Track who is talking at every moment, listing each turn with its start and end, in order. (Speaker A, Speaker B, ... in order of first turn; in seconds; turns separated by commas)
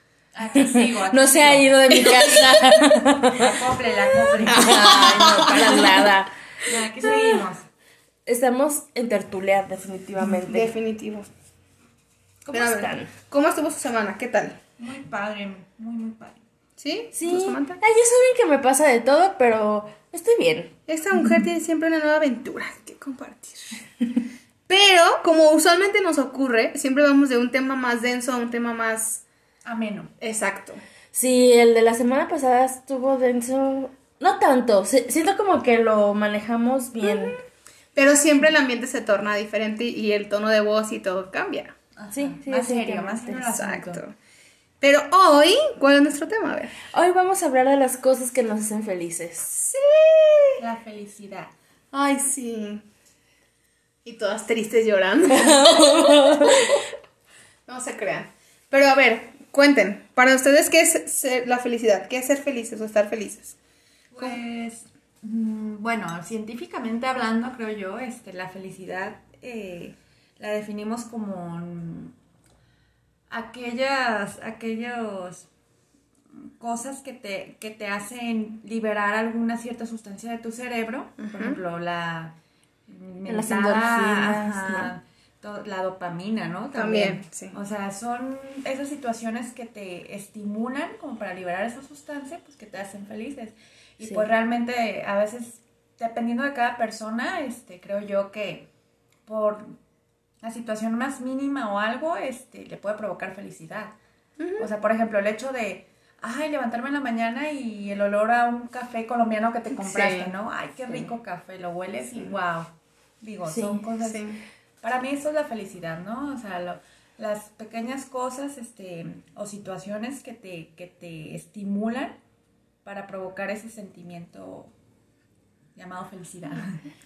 Speaker A: 0.3-2.5, Speaker B: 0.6-3.6, Speaker C: 1.9-2.6, Speaker A: 3.4-6.0, Speaker C: 4.4-6.0, Speaker B: 4.5-7.4, Speaker A: 6.7-7.7, Speaker B: 8.3-10.7, Speaker C: 10.5-11.3, Speaker B: 12.4-13.1, Speaker C: 12.5-14.6, Speaker A: 14.8-16.4, Speaker C: 16.8-17.8, Speaker B: 17.1-20.7, Speaker C: 20.9-23.8, Speaker C: 24.7-29.2, Speaker A: 29.6-30.1, Speaker C: 30.2-30.8, Speaker B: 31.1-37.4, Speaker C: 37.0-37.4, Speaker C: 38.0-41.8, Speaker A: 42.0-44.0, Speaker B: 42.1-43.3, Speaker C: 43.3-44.1, Speaker C: 44.8-46.7, Speaker B: 46.9-49.7, Speaker C: 49.7-50.6, Speaker A: 50.6-51.5, Speaker C: 51.9-52.9, Speaker C: 54.0-56.8, Speaker B: 55.3-56.7, Speaker C: 57.7-63.6, Speaker A: 64.1-72.2, Speaker C: 64.2-64.4, Speaker A: 73.3-75.5, Speaker A: 76.3-82.3, Speaker C: 81.2-81.6, Speaker A: 82.9-98.7, Speaker B: 83.3-84.9, Speaker C: 86.7-87.5, Speaker A: 99.3-99.8, Speaker A: 100.4-104.0, Speaker C: 104.4-104.7, Speaker A: 104.6-114.3, Speaker C: 109.7-110.3, Speaker B: 113.5-113.8, Speaker C: 114.0-114.4, Speaker A: 114.8-122.2, Speaker A: 122.8-124.7, Speaker A: 125.8-126.8